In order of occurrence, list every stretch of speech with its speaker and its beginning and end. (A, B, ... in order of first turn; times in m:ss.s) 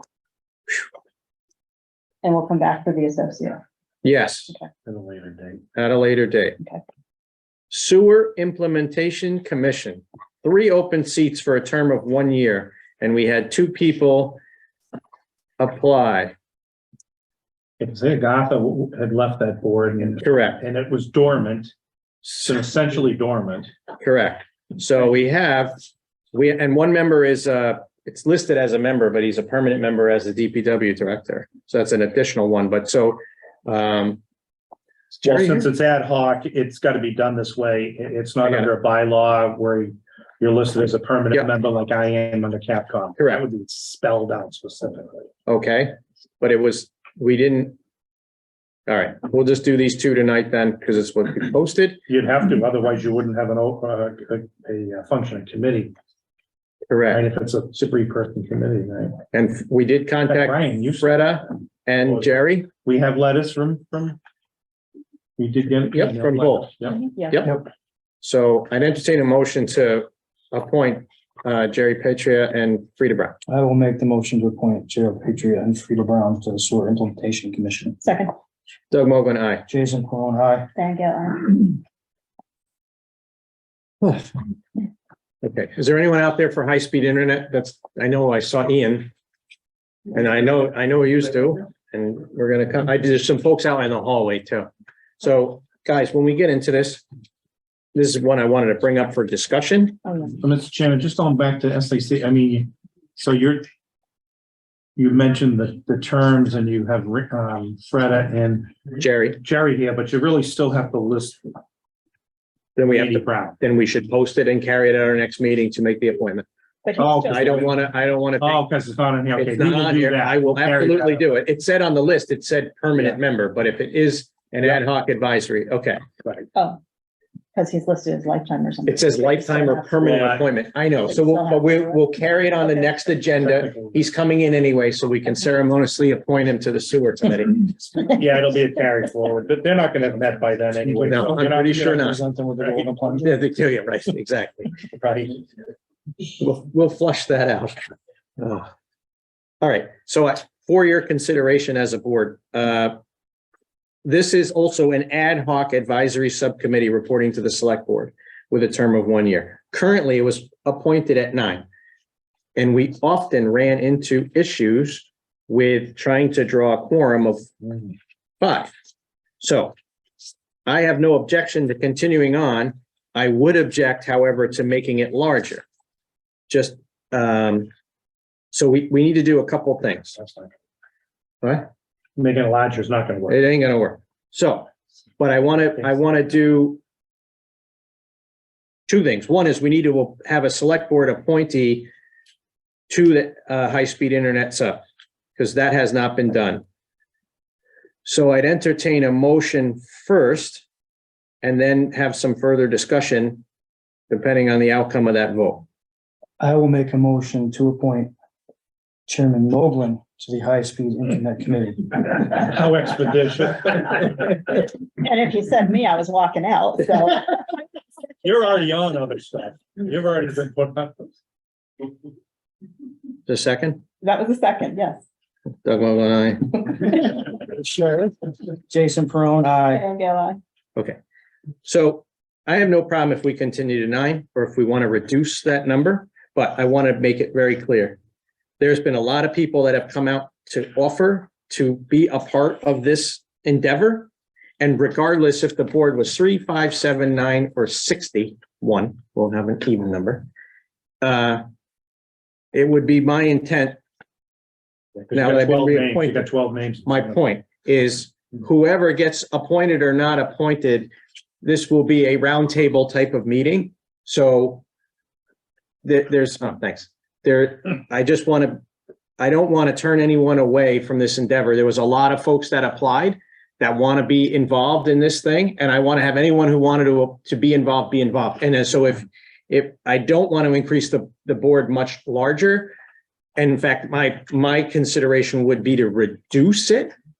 0:02.2-0:03.6 A
0:04.0-0:04.5 B
0:04.8-0:05.6 C
0:05.8-0:06.6 B
0:07.7-0:14.4 B
0:15.6-0:16.3 B
0:17.8-0:21.7 C
0:20.2-0:20.6 B
0:22.2-0:23.7 C
0:24.0-0:25.8 B
0:26.3-0:34.2 B
0:35.2-0:35.6 B
0:35.2-0:45.3 C
0:38.4-0:38.7 B
0:43.2-0:43.4 B
0:45.5-0:47.8 B
0:48.9-0:52.0 B
0:52.1-0:55.9 C
0:56.9-0:57.2 B
0:57.1-0:59.2 C
0:59.3-1:02.7 B
1:00.2-1:02.3 C
1:02.8-1:04.2 C
1:05.4-1:07.0 C
1:05.9-1:07.5 B
1:07.0-1:07.5 A
1:08.2-1:13.4 B
1:13.5-1:18.0 D
1:18.0-1:18.3 A
1:18.9-1:19.6 B
1:19.7-1:20.7 D
1:20.7-1:21.8 A
1:24.0-1:24.3 B
1:25.4-1:29.1 B
1:30.1-1:37.0 B
1:37.9-1:40.0 B
1:40.0-1:40.3 A
1:40.4-1:43.7 C
1:45.0-1:48.8 C
1:49.0-1:49.4 B
1:49.4-1:51.5 C
1:52.8-1:56.4 B
1:52.8-1:53.6 C
1:56.8-1:57.5 A
1:57.0-1:57.8 C
1:57.2-1:58.6 B
1:58.4-2:01.2 C
1:59.4-2:06.0 B
2:06.5-2:06.8 A
2:07.5-2:10.0 A
2:08.8-2:17.9 B
2:10.0-2:10.5 C
2:11.1-2:12.9 A
2:13.4-2:14.0 C
2:18.1-2:22.9 C
2:20.9-2:23.3 D
2:21.0-2:22.2 B
2:23.2-2:24.7 B
2:24.8-2:25.4 C
2:26.4-2:27.8 B
2:28.4-2:28.7 B
2:29.6-2:33.0 B
2:34.0-2:41.6 B
2:42.6-2:47.5 B
2:48.4-2:48.7 B
2:49.4-2:49.7 B
2:50.6-2:55.6 B
2:56.5-2:57.7 B
2:58.5-3:00.1 B
3:00.2-3:00.5 C
3:01.4-3:01.7 B
3:02.2-3:03.4 C
3:03.3-3:06.8 B
3:08.9-3:11.9 B
3:12.9-3:14.8 B
3:15.4-3:16.6 B
3:18.0-3:20.6 B
3:21.4-3:23.4 B
3:24.1-3:25.6 B
3:26.4-3:28.1 D
3:29.1-3:32.2 D
3:32.4-3:34.2 C
3:34.5-3:37.4 A
3:38.2-3:41.0 C
3:43.3-3:43.8 B
3:44.0-3:45.0 A
3:45.6-3:46.9 B
3:47.4-3:49.8 D
3:49.7-3:50.4 A
3:51.6-3:58.0 B
3:58.6-4:10.3 B
4:11.0-4:11.4 B
4:12.5-4:13.8 B
4:15.0-4:17.2 C
4:15.1-4:16.3 B
4:16.8-4:20.9 B
4:21.4-4:24.6 B
4:25.8-4:28.6 B
4:29.2-4:42.8 B
4:43.4-4:46.9 B